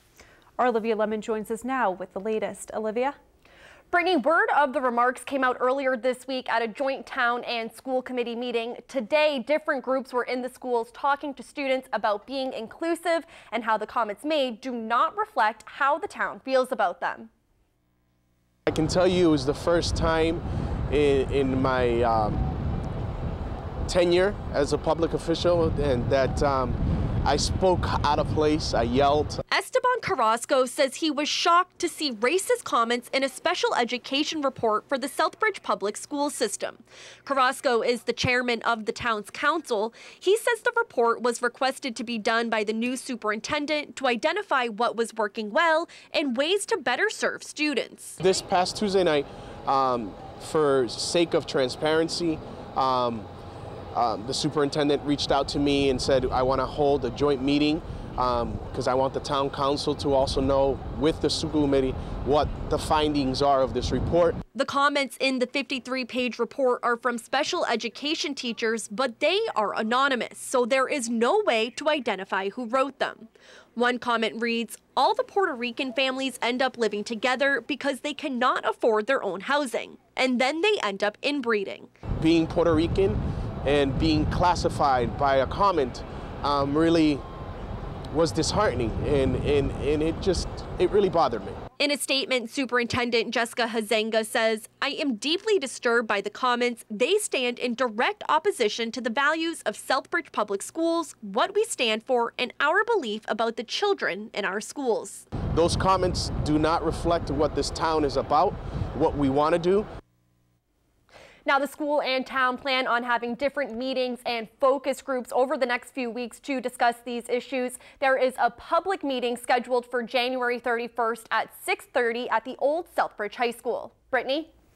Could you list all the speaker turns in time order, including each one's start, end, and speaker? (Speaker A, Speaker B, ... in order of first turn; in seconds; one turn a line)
Speaker A: 0.6-3.2
Speaker B: 3.9-17.3
Speaker C: 18.7-22.5
Speaker C: 23.9-29.4
Speaker B: 29.5-48.2
Speaker C: 48.2-53.3
Speaker C: 53.9-64.4
Speaker B: 64.5-81.9
Speaker C: 82.2-87.2
Speaker C: 88.1-91.6
Speaker B: 91.8-105.3
Speaker C: 105.5-109.8
Speaker B: 111.5-124.5